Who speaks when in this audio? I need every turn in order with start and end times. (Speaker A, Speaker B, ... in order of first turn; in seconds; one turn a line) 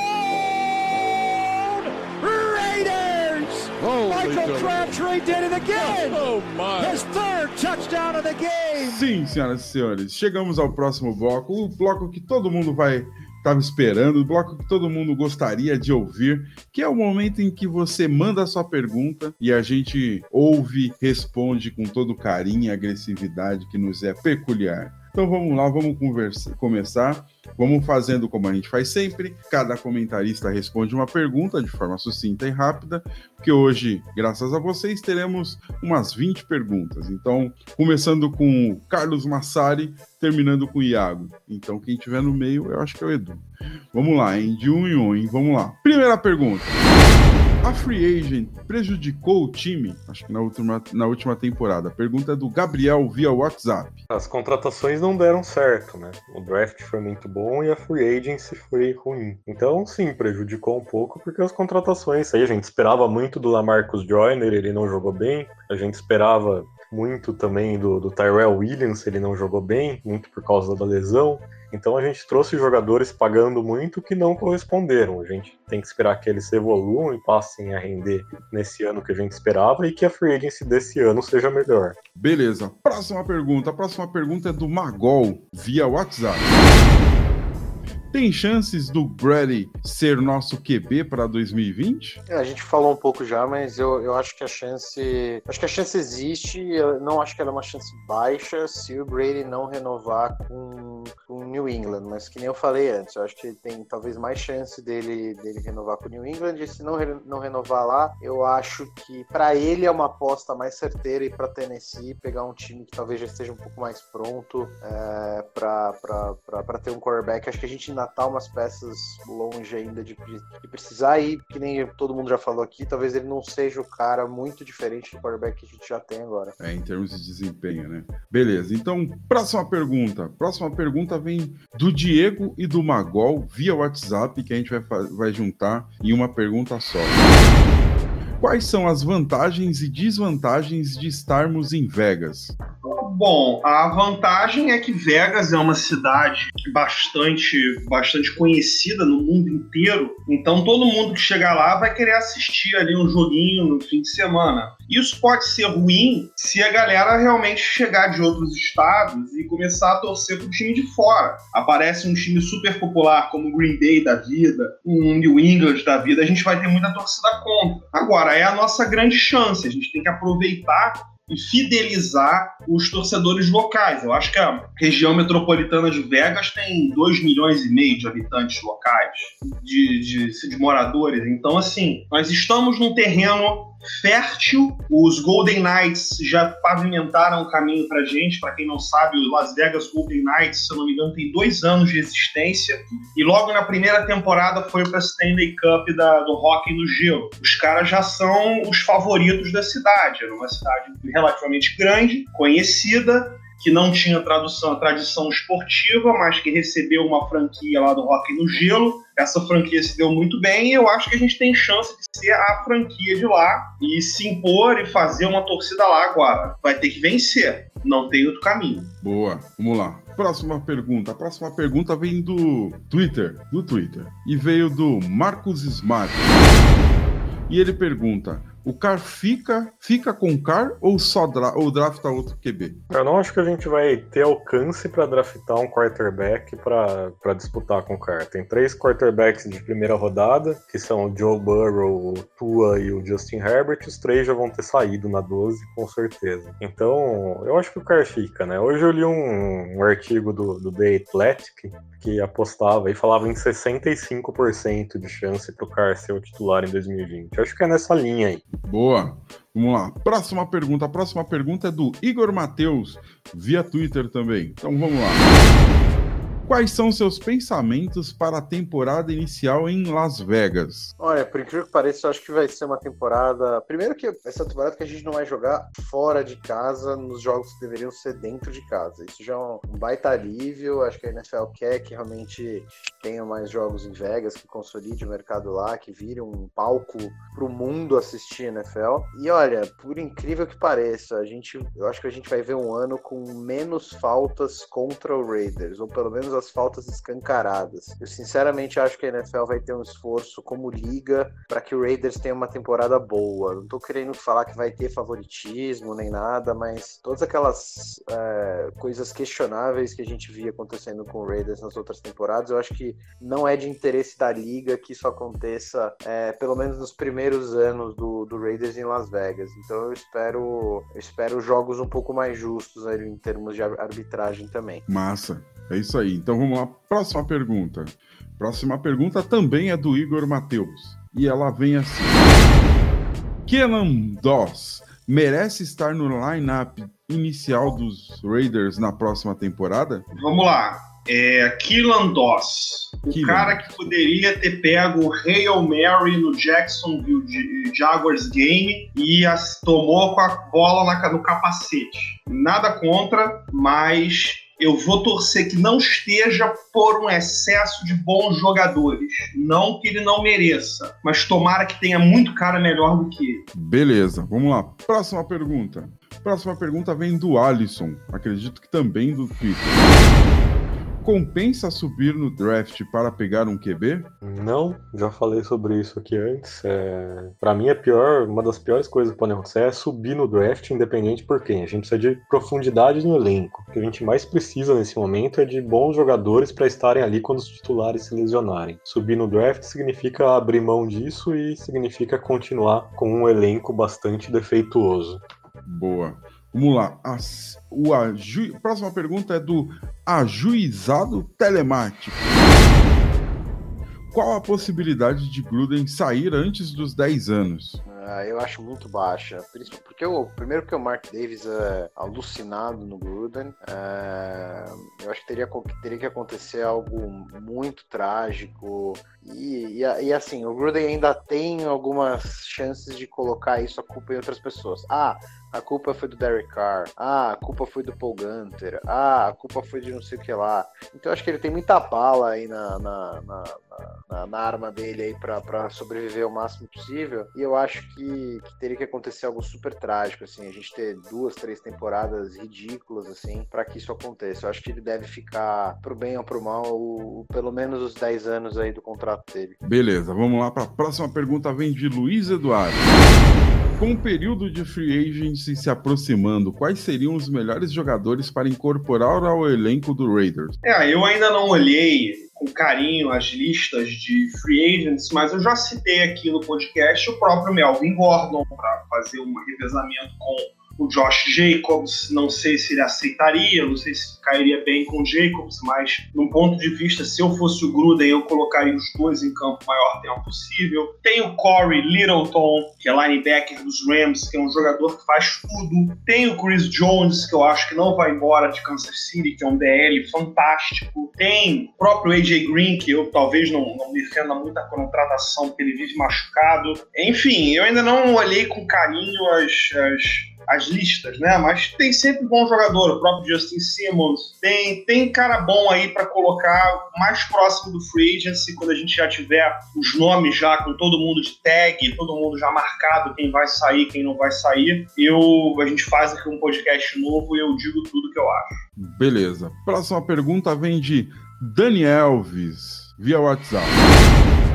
Speaker A: 0.4-9.0
Speaker B: 8.7-46.8
Speaker B: 47.6-54.0
Speaker C: 54.1-82.0
Speaker B: 82.2-86.5
Speaker B: 88.1-92.2
Speaker D: 92.3-126.5
Speaker B: 126.6-137.2
Speaker B: 138.4-142.6
Speaker E: 142.8-218.9
Speaker B: 219.0-226.3
Speaker B: 227.5-232.8
Speaker C: 232.9-258.4
Speaker B: 258.6-265.3
Speaker B: 266.4-270.9
Speaker D: 271.0-324.8
Speaker B: 324.9-332.2
Speaker B: 333.4-340.1
Speaker E: 340.1-363.4
Speaker B: 343.1-343.9
Speaker B: 363.5-369.8
Speaker B: 371.0-374.1
Speaker C: 374.2-395.2
Speaker B: 395.6-402.2
Speaker B: 404.1-407.8
Speaker D: 407.9-449.6
Speaker B: 449.6-452.9
Speaker B: 453.8-460.6
Speaker E: 460.6-518.6
Speaker B: 518.8-523.9